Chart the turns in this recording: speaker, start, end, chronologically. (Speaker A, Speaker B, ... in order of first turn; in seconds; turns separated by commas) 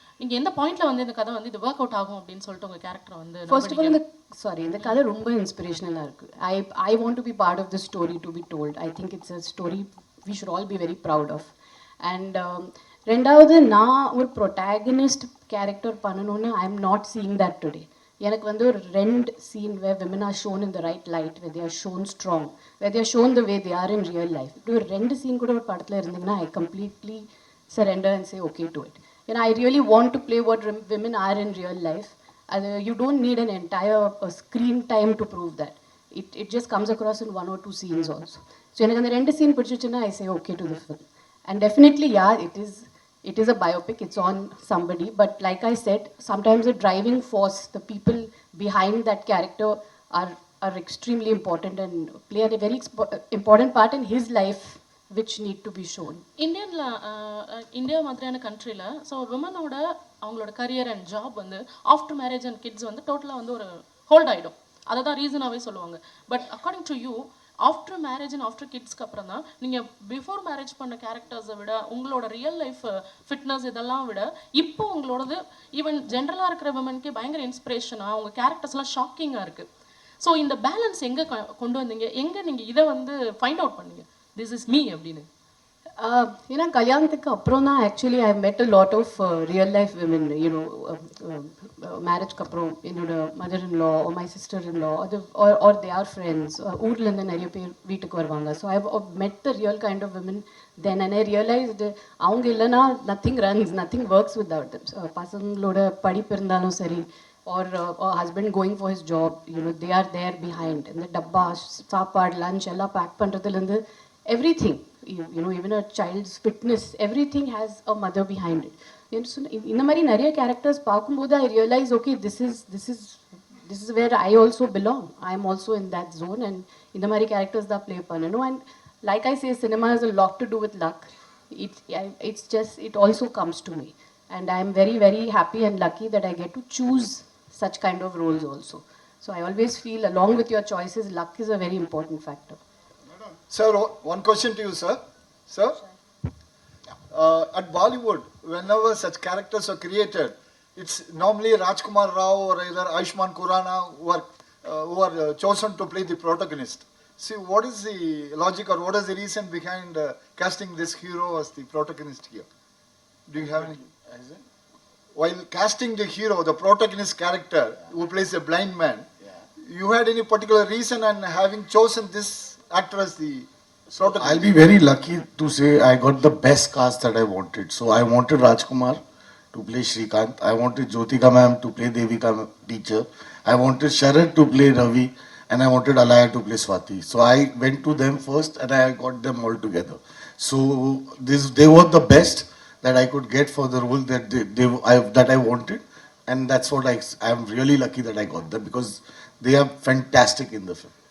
Speaker A: 0.2-4.0, Speaker B: 3.5-56.2, Speaker A: 56.4-79.7, Speaker A: 80.2-85.3, Speaker B: 86.0-142.6, Speaker C: 143.5-145.8, Speaker C: 147.1-162.4, Speaker C: 163.3-163.8, Speaker D: 164.1-164.3, Speaker C: 165.1-169.1, Speaker C: 169.6-174.5, Speaker D: 174.1-179.0, Speaker D: 179.5-200.9